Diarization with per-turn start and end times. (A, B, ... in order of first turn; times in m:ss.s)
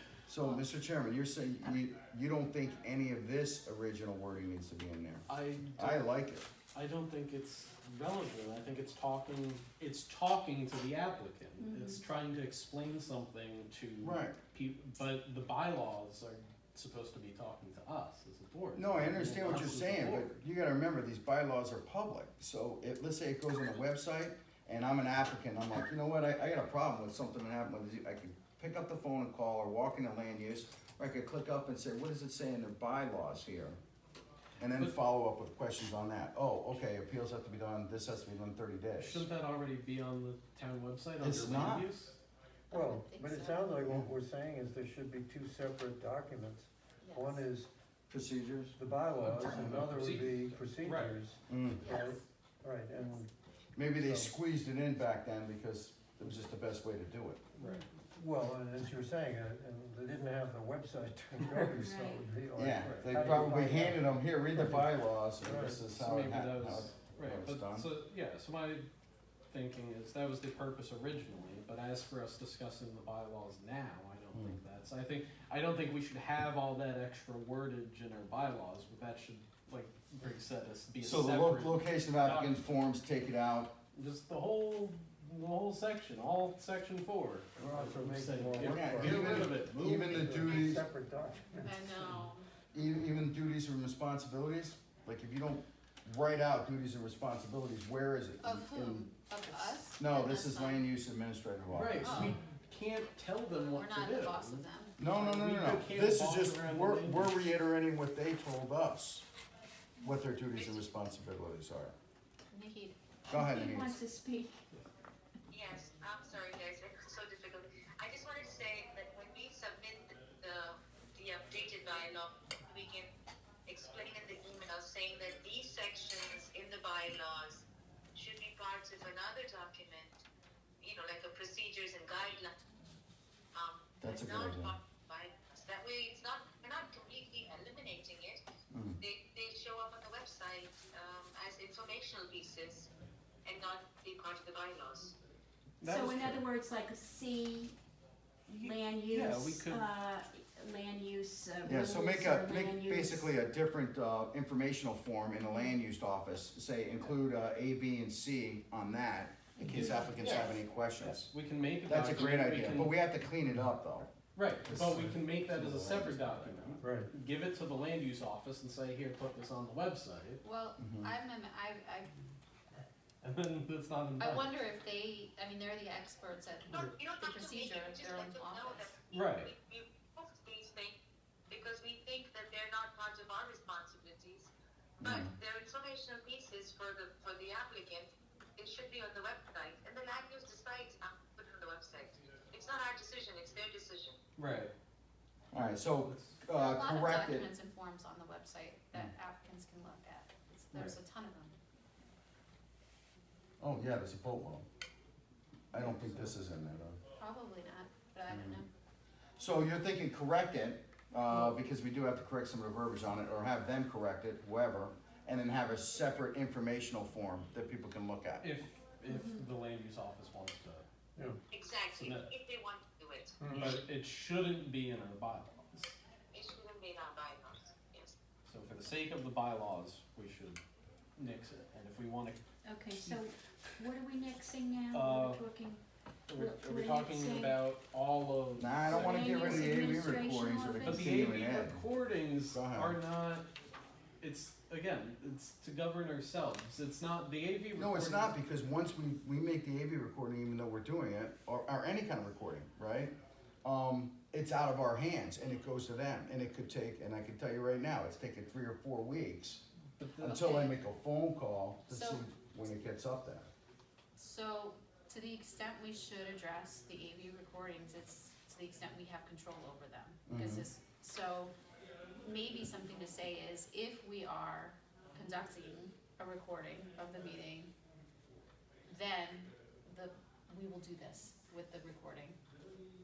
0:00.3-0:06.5 A
0:05.3-0:06.1 B
0:06.7-0:20.3 B
0:11.6-0:12.0 C
0:14.0-0:14.4 A
0:18.7-0:33.8 A
0:34.6-0:39.2 A
0:39.0-0:42.2 B
0:41.2-0:41.9 A
0:42.7-0:43.9 D
0:42.7-0:47.7 E
0:47.0-0:47.4 D
0:48.1-0:48.8 A
0:48.8-0:53.3 E
0:49.2-0:51.2 B
0:49.4-0:49.8 A
0:51.5-0:51.9 A
0:51.8-0:52.2 D
0:53.8-0:57.4 A
0:53.9-0:54.3 E
0:57.6-0:57.8 B
0:58.1-1:04.9 E
1:01.4-1:01.7 B
1:01.7-1:02.3 C
1:02.5-1:07.9 A
1:02.8-1:03.5 B
1:05.4-1:05.8 E
1:05.5-1:08.9 B
1:09.5-1:22.6 B
1:21.0-1:23.7 A
1:23.9-1:30.8 B
1:27.6-1:29.6 E
1:28.6-1:30.8 A
1:30.1-1:31.9 E
1:31.6-1:32.5 D
1:32.7-1:39.1 A
1:38.4-1:40.9 D
1:40.0-1:42.4 A
1:41.7-1:47.4 B
1:42.0-1:42.3 D
1:43.6-1:45.0 D
1:45.0-1:49.2 A
1:50.0-1:51.9 A
1:50.5-1:50.9 F
1:52.5-1:53.0 D
1:53.3-1:54.0 A
1:53.3-1:54.7 C
1:55.5-2:03.1 F
2:03.7-2:10.2 F
2:10.8-2:12.5 F
2:13.5-2:18.4 F
2:14.0-2:14.7 A
2:18.7-2:19.0 A
2:19.0-2:22.9 F
2:23.4-2:25.1 F
2:25.8-2:26.4 B
2:25.8-2:27.8 C
2:28.5-2:33.3 C
2:28.5-2:29.8 B
2:31.6-2:41.3 A
2:39.6-2:40.6 C
2:39.7-2:43.0 B
2:41.8-2:44.1 A
2:44.3-2:50.4 B
2:44.6-2:46.8 A
2:46.8-2:47.1 E
2:50.4-2:52.1 D
2:50.8-2:51.1 A
2:53.2-2:54.5 B
2:54.2-2:58.9 D
2:56.7-3:01.0 F
2:59.1-2:59.5 B
3:01.5-3:04.5 F
3:05.0-3:05.3 A
3:05.0-3:14.2 F
3:14.4-3:14.7 B
3:15.5-3:17.5 A
3:16.0-3:16.4 B
3:16.5-3:21.6 D
3:23.6-3:24.6 A
3:25.7-3:27.0 A
3:25.8-3:26.2 B
3:27.2-3:28.7 D
3:28.3-3:28.6 A
3:29.4-3:38.5 A
3:38.4-3:40.8 B
3:39.0-3:39.4 C
3:41.5-3:43.7 F
3:41.9-3:42.3 B
3:43.4-3:43.8 E
3:43.5-3:46.0 B
3:46.3-3:48.1 F
3:48.4-3:50.6 B
3:51.2-3:52.4 B
3:52.6-3:55.8 C
3:53.0-3:53.8 B
3:54.9-3:55.4 B
3:56.3-3:59.7 B
3:56.3-3:57.6 C
3:58.6-4:01.8 A
3:58.9-4:01.2 C
4:00.8-4:03.5 B
4:02.5-4:03.0 A
4:04.2-4:08.3 B
4:07.8-4:19.6 A
4:20.0-4:20.4 B
4:20.2-4:23.5 A
4:20.2-4:20.7 D
4:21.9-4:22.2 D
4:24.2-4:31.5 D
4:30.3-4:30.7 A
4:32.2-4:37.7 D
4:38.9-4:42.4 D